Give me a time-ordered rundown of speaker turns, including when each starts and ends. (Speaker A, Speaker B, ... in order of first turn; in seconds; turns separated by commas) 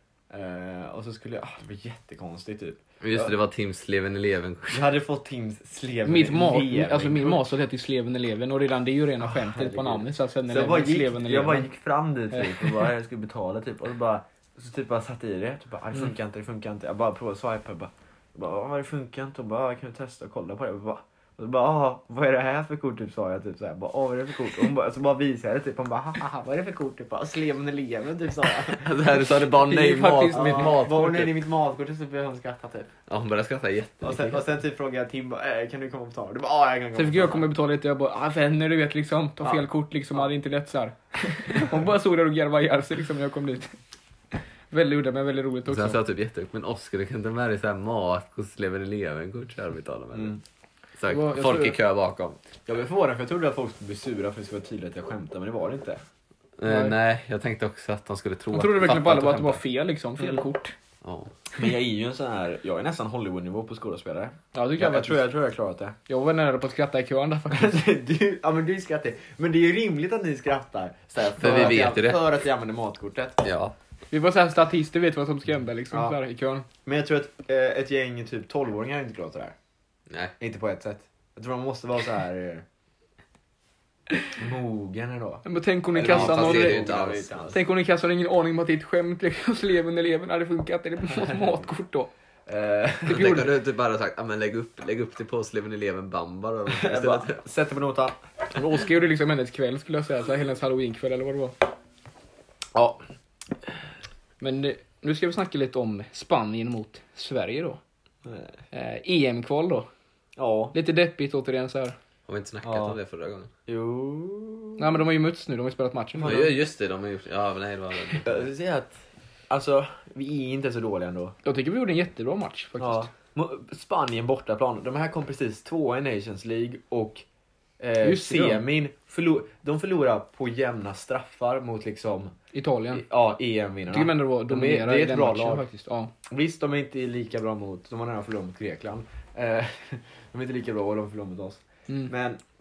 Speaker A: 0.3-3.3, Speaker B: 3.0-4.8, Speaker A: 4.7-7.4, Speaker C: 6.0-11.7, Speaker A: 9.2-29.1, Speaker C: 12.3-12.9, Speaker B: 28.7-31.3, Speaker C: 29.6-30.8, Speaker A: 30.3-32.9, Speaker B: 33.1-34.4, Speaker A: 34.0-37.5, Speaker C: 36.9-43.7, Speaker A: 39.4-40.3, Speaker C: 44.7-46.0, Speaker B: 45.6-50.4, Speaker A: 50.1-50.4, Speaker B: 51.0-52.4, Speaker C: 51.1-51.8, Speaker A: 52.6-56.0, Speaker B: 56.6-59.6, Speaker C: 56.6-57.0, Speaker C: 58.5-60.7, Speaker B: 61.0-61.3, Speaker A: 61.5-66.0, Speaker C: 64.5-65.3, Speaker C: 66.1-67.8, Speaker A: 67.5-73.4, Speaker B: 71.3-72.2, Speaker B: 73.4-73.7, Speaker C: 74.1-76.7, Speaker A: 75.9-76.2, Speaker A: 76.8-79.5, Speaker A: 80.4-82.6, Speaker A: 84.4-87.6, Speaker C: 85.4-86.9, Speaker B: 86.0-87.5, Speaker C: 87.5-92.1, Speaker A: 92.5-93.4, Speaker B: 93.0-97.4, Speaker C: 93.1-93.5, Speaker A: 96.7-98.2, Speaker C: 98.5-101.6, Speaker A: 102.7-103.0, Speaker C: 104.4-107.8, Speaker A: 108.2-108.5, Speaker C: 108.7-109.9, Speaker A: 110.4-110.7, Speaker C: 110.7-112.0, Speaker B: 112.3-113.5, Speaker A: 112.6-113.0, Speaker A: 113.7-115.0, Speaker C: 114.8-116.5, Speaker A: 116.1-116.5, Speaker B: 116.2-118.5, Speaker A: 118.2-121.3, Speaker C: 121.4-123.1, Speaker A: 122.8-127.2, Speaker A: 127.8-132.3, Speaker C: 128.0-128.6, Speaker C: 132.5-133.0, Speaker A: 132.9-135.6, Speaker C: 133.9-136.1, Speaker A: 136.3-142.4, Speaker C: 141.9-142.1